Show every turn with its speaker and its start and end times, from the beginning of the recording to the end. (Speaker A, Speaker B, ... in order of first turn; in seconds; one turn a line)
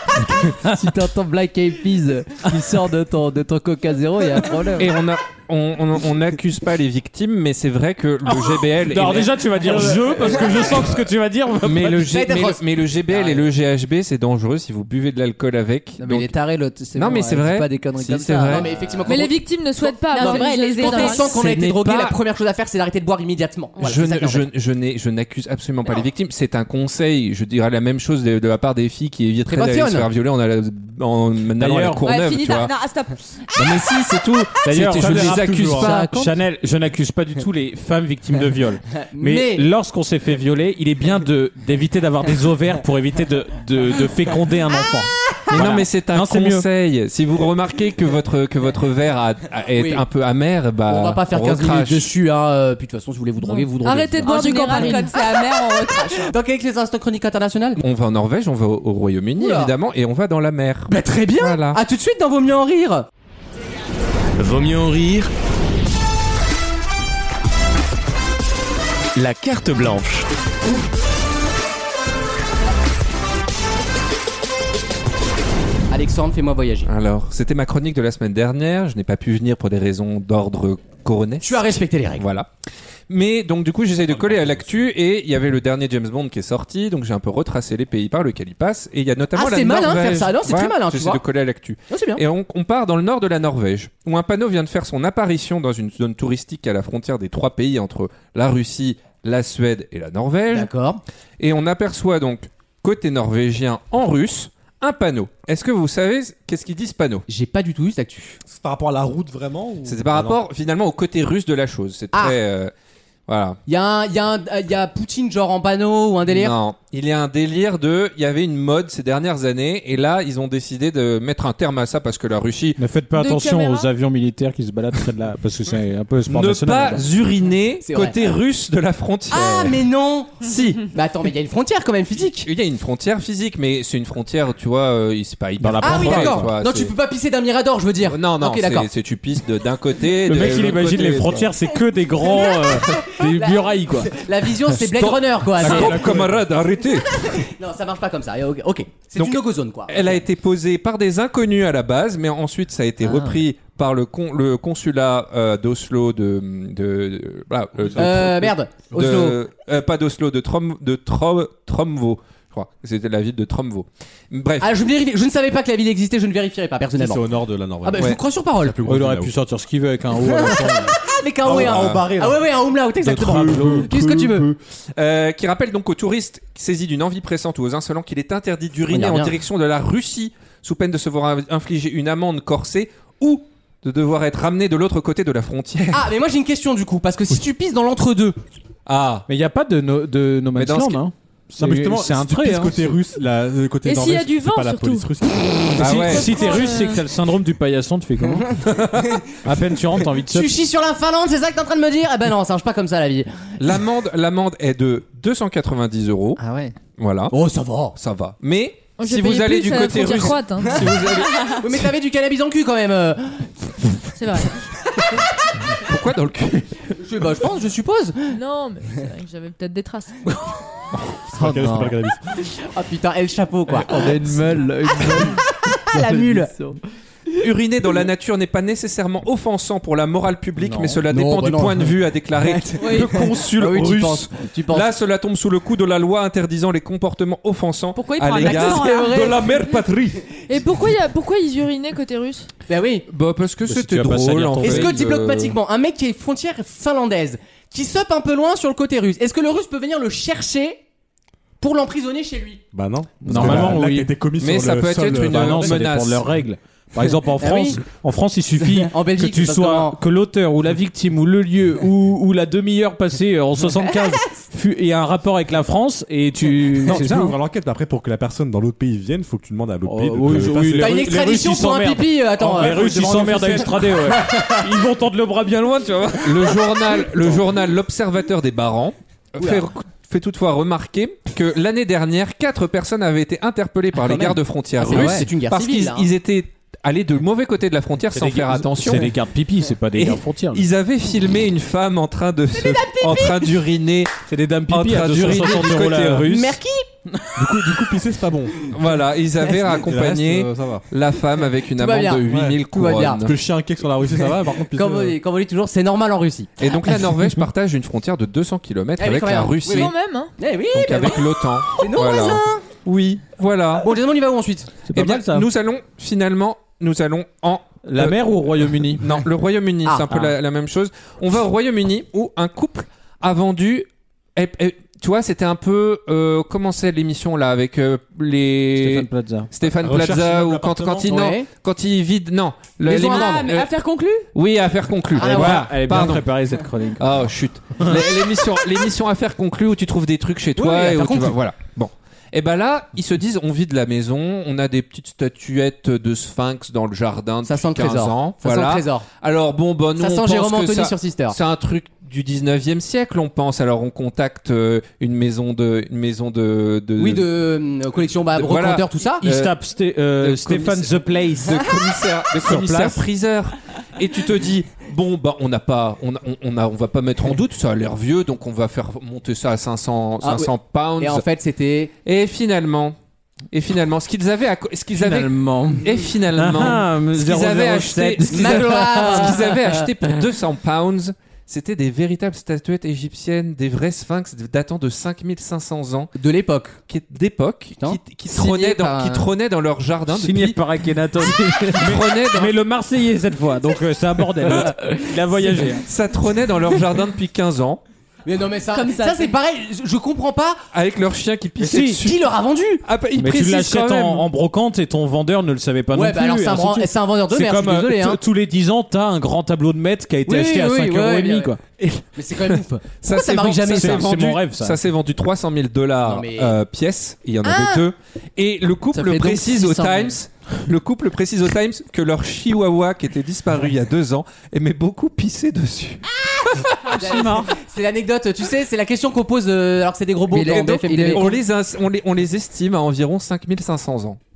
Speaker A: 0.4-4.9
Speaker B: 4.8-10.0
Speaker C: 8.3-12.2
Speaker B: 11.6-16.4
Speaker D: 11.9-13.4
Speaker A: 16.0-18.7
Speaker B: 16.9-18.7
Speaker D: 18.5-24.5
Speaker E: 19.1-21.4
Speaker F: 20.1-21.4
Speaker B: 21.3-22.2
Speaker B: 23.8-32.7
Speaker D: 29.5-30.1
Speaker C: 31.6-32.0
Speaker F: 32.0-33.2
Speaker B: 33.5-35.9
Speaker C: 34.6-46.7
Speaker G: 34.9-35.9
Speaker A: 35.8-36.4
Speaker D: 39.1-39.7
Speaker B: 45.5-52.1
Speaker D: 49.8-50.0
Speaker D: 50.9-57.8
Speaker E: 53.4-55.1
Speaker F: 54.2-56.4
Speaker B: 57.8-61.8
Speaker D: 59.4-59.7
Speaker D: 60.9-63.1
Speaker H: 64.4-65.3
Speaker H: 69.2-70.3
Speaker D: 75.9-76.9
Speaker B: 76.8-82.5
Speaker D: 81.4-82.2
Speaker B: 83.1-100.7
Speaker G: 84.2-84.8
Speaker D: 89.3-91.2
Speaker D: 91.9-92.2
Speaker D: 100.5-101.0
Speaker B: 101.4-107.3
Speaker D: 107.3-108.4
Speaker G: 108.5-110.4
Speaker B: 109.8-112.7
Speaker B: 113.3-113.6
Speaker D: 113.7-116.6
Speaker B: 116.3-122.8
Speaker C: 122.8-127.1
Speaker E: 123.1-123.9
Speaker B: 126.3-129.8
Speaker D: 127.8-128.2
Speaker D: 129.3-132.5
Speaker B: 130.4-130.8
Speaker B: 132.4-136.9
Speaker C: 135.6-136.6
Speaker D: 135.8-138.9
Speaker B: 138.1-141.5
Speaker C: 140.3-144.1
Speaker D: 142.2-146.3
Speaker B: 144.7-147.3
Speaker G: 145.6-146.3
Speaker D: 146.9-150.2
Speaker B: 149.2-164.7
Speaker D: 158.0-159.4
Speaker D: 164.6-167.2
Speaker G: 167.0-169.3
Speaker D: 167.8-168.8
Speaker C: 168.8-171.0
Speaker D: 170.1-174.5
Speaker G: 171.4-172.4
Speaker B: 171.5-172.1
Speaker G: 173.0-174.6
Speaker C: 173.2-173.9
Speaker B: 175.0-186.1
Speaker D: 178.9-179.3
Speaker D: 185.9-188.4
Speaker B: 188.9-189.3
Speaker C: 189.3-193.0
Speaker B: 190.6-191.0
Speaker G: 191.6-196.1
Speaker E: 193.9-195.1
Speaker B: 195.8-196.4
Speaker E: 195.8-197.0
Speaker C: 195.8-198.6
Speaker B: 198.6-199.2
Speaker C: 199.4-200.5
Speaker D: 200.1-203.4
Speaker B: 203.6-206.4
Speaker A: 206.4-206.8
Speaker B: 207.0-207.3
Speaker D: 207.3-208.0
Speaker B: 207.9-211.8
Speaker E: 209.0-210.9
Speaker D: 210.6-213.6
Speaker F: 211.3-211.6
Speaker E: 214.2-214.6
Speaker B: 215.8-216.7
Speaker D: 217.0-218.4
Speaker E: 218.3-220.3
Speaker G: 221.3-222.3
Speaker A: 221.3-221.9
Speaker D: 222.4-224.4
Speaker A: 223.8-226.8
Speaker D: 225.9-226.5
Speaker B: 227.3-240.3
Speaker A: 231.1-231.9
Speaker A: 232.4-234.9
Speaker F: 232.8-233.2
Speaker F: 237.9-239.5
Speaker D: 238.4-239.3
Speaker E: 240.5-242.5
Speaker D: 242.7-243.1
Speaker B: 243.1-245.6
Speaker C: 243.7-245.0
Speaker D: 244.6-250.8
Speaker D: 251.6-252.6
Speaker G: 252.7-255.8
Speaker C: 253.3-254.1
Speaker B: 253.3-253.7
Speaker B: 254.4-256.2
Speaker C: 255.2-267.4
Speaker D: 257.4-257.8
Speaker D: 258.7-260.0
Speaker G: 266.9-271.1
Speaker C: 269.9-277.4
Speaker D: 270.8-274.9
Speaker B: 275.8-289.1
Speaker D: 279.4-279.7
Speaker D: 284.0-286.1
Speaker C: 284.9-285.3
Speaker C: 288.1-290.7
Speaker B: 289.9-296.6
Speaker D: 292.5-293.6
Speaker C: 294.3-296.6
Speaker D: 296.3-296.9
Speaker C: 297.1-297.7
Speaker G: 297.4-298.7
Speaker B: 298.7-303.3
Speaker G: 299.7-300.8
Speaker D: 301.8-303.3
Speaker G: 302.3-302.6
Speaker G: 303.2-305.2
Speaker D: 304.1-307.0
Speaker B: 306.6-309.9
Speaker D: 309.0-312.7
Speaker E: 309.7-310.4
Speaker B: 310.7-313.9
Speaker D: 313.8-314.9
Speaker C: 314.9-315.5
Speaker B: 314.9-318.2
Speaker C: 317.9-319.2
Speaker B: 318.9-333.7
Speaker D: 319.9-320.1
Speaker C: 328.8-329.5
Speaker G: 329.8-331.1
Speaker D: 331.1-331.5
Speaker D: 332.9-333.5
Speaker F: 332.9-334.3
Speaker B: 334.3-336.4
Speaker D: 335.1-335.7
Speaker C: 335.2-338.0
Speaker B: 337.0-357.3
Speaker D: 340.6-341.4
Speaker D: 347.4-349.1
Speaker D: 350.0-351.4
Speaker D: 357.0-359.2
Speaker B: 358.3-359.6
Speaker C: 359.2-361.8
Speaker B: 360.2-371.2
Speaker C: 362.4-362.9
Speaker D: 370.2-371.9
Speaker B: 372.1-373.0
Speaker B: 373.5-386.1
Speaker C: 375.0-379.5
Speaker D: 378.3-379.7
Speaker D: 386.2-386.8
Speaker B: 386.9-390.6
Speaker D: 387.8-389.1
Speaker A: 388.3-389.1
Speaker C: 390.1-395.9
Speaker B: 391.2-392.5
Speaker B: 394.5-394.9
Speaker B: 395.5-397.8
Speaker D: 398.2-400.6
Speaker F: 398.7-399.4
Speaker B: 400.7-402.3
Speaker C: 401.6-402.1
Speaker D: 402.0-402.8
Speaker B: 402.8-404.3
Speaker C: 403.2-412.0
Speaker D: 405.9-408.2
Speaker D: 410.3-411.6
Speaker D: 412.1-414.1
Speaker B: 413.0-426.1
Speaker C: 413.6-414.8
Speaker D: 416.0-416.6
Speaker D: 417.4-417.9
Speaker A: 418.9-420.2
Speaker D: 426.9-431.3
Speaker C: 426.9-427.5
Speaker A: 430.3-431.4
Speaker B: 430.8-434.2